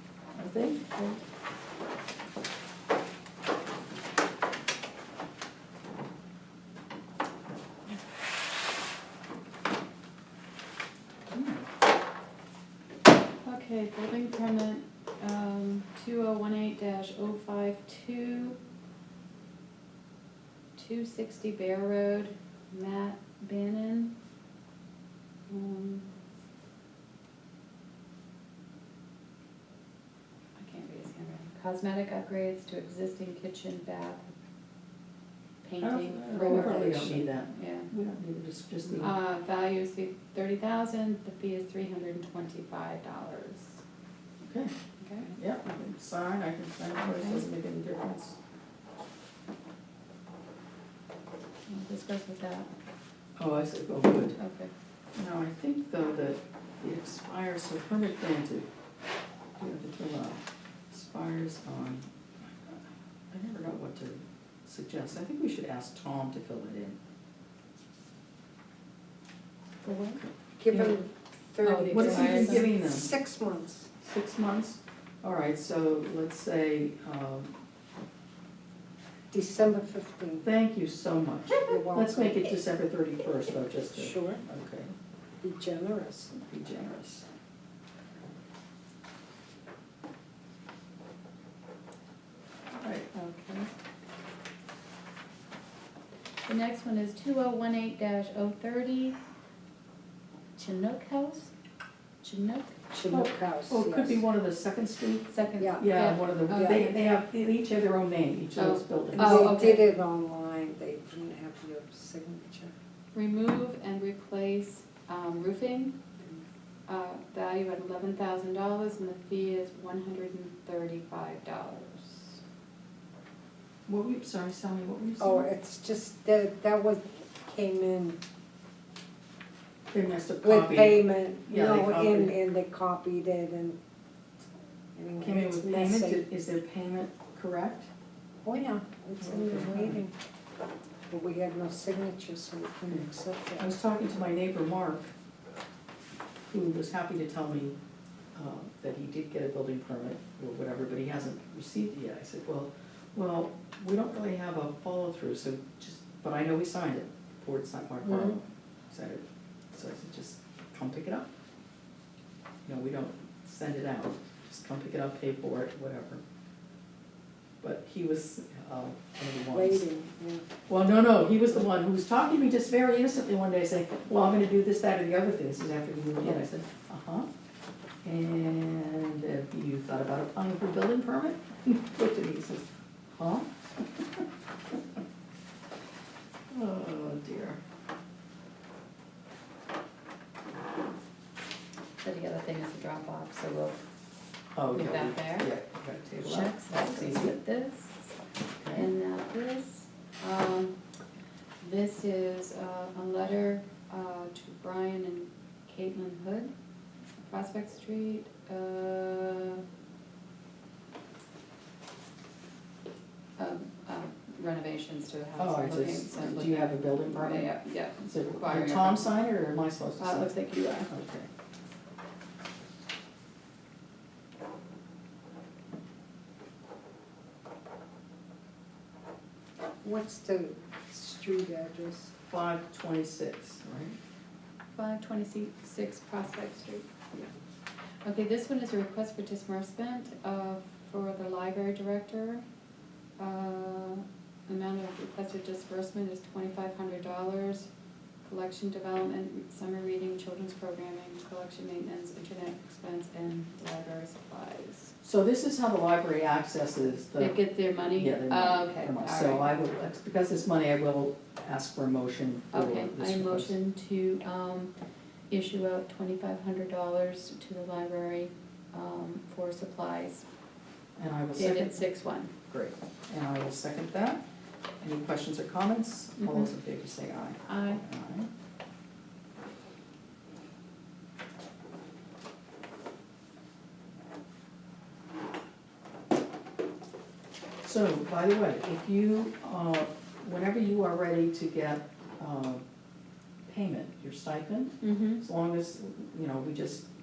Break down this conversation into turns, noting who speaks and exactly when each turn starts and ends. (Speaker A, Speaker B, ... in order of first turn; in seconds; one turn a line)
Speaker A: 0.3-1.2
Speaker A: 11.3-11.6
Speaker B: 13.4-18.6
Speaker B: 20.8-24.1
Speaker B: 25.5-26.1
Speaker B: 30.6-34.3
Speaker B: 35.6-37.9
Speaker A: 35.8-39.1
Speaker C: 36.4-37.2
Speaker B: 38.9-43.8
Speaker A: 44.4-48.4
Speaker B: 45.0-45.4
Speaker B: 47.0-47.5
Speaker B: 51.7-52.7
Speaker A: 53.4-54.4
Speaker B: 54.4-54.7
Speaker A: 55.2-58.7
Speaker A: 59.6-67.0
Speaker B: 69.8-70.2
Speaker A: 70.2-71.0
Speaker C: 70.6-73.9
Speaker B: 71.6-72.7
Speaker A: 71.9-73.1
Speaker A: 74.0-77.6
Speaker C: 79.3-80.5
Speaker A: 80.4-84.9
Speaker C: 81.7-82.5
Speaker C: 83.9-84.4
Speaker C: 85.4-86.3
Speaker A: 86.3-87.2
Speaker A: 92.7-93.7
Speaker B: 96.5-99.2
Speaker B: 100.6-101.5
Speaker B: 102.2-102.8
Speaker C: 102.9-104.2
Speaker A: 103.1-109.8
Speaker B: 105.3-107.0
Speaker C: 105.6-105.9
Speaker B: 108.5-109.8
Speaker C: 109.1-112.7
Speaker B: 113.1-116.0
Speaker B: 116.9-122.4
Speaker A: 123.9-125.5
Speaker C: 125.2-128.2
Speaker A: 129.9-132.4
Speaker C: 130.4-133.8
Speaker C: 134.9-136.2
Speaker A: 135.2-137.9
Speaker C: 138.4-140.1
Speaker A: 139.2-140.0
Speaker C: 141.1-143.7
Speaker A: 143.6-145.1
Speaker A: 146.5-147.8
Speaker A: 148.3-161.3
Speaker C: 158.0-158.4
Speaker A: 162.7-166.2
Speaker A: 167.6-169.8
Speaker C: 169.5-170.5
Speaker A: 170.7-177.3
Speaker A: 178.0-184.2
Speaker A: 186.5-187.6
Speaker B: 192.0-193.8
Speaker A: 194.6-197.4
Speaker B: 194.7-195.5
Speaker B: 196.1-198.2
Speaker A: 198.6-198.9
Speaker B: 198.7-200.8
Speaker B: 201.6-206.5
Speaker B: 207.2-209.6
Speaker B: 213.4-219.2
Speaker A: 215.4-217.5
Speaker A: 218.0-221.3
Speaker B: 220.0-220.9
Speaker C: 229.8-232.1
Speaker A: 232.3-234.0
Speaker B: 234.8-236.9
Speaker B: 238.0-242.4
Speaker B: 243.2-247.7
Speaker B: 248.2-254.9
Speaker A: 255.0-257.4
Speaker B: 257.2-259.6
Speaker A: 257.9-263.6
Speaker B: 262.5-264.7
Speaker B: 265.3-270.2
Speaker A: 271.0-271.8
Speaker B: 271.4-272.3
Speaker A: 272.5-274.2
Speaker A: 274.8-278.3
Speaker B: 276.2-276.5
Speaker B: 277.4-277.8
Speaker A: 287.6-292.6
Speaker A: 293.5-296.9
Speaker B: 294.8-295.2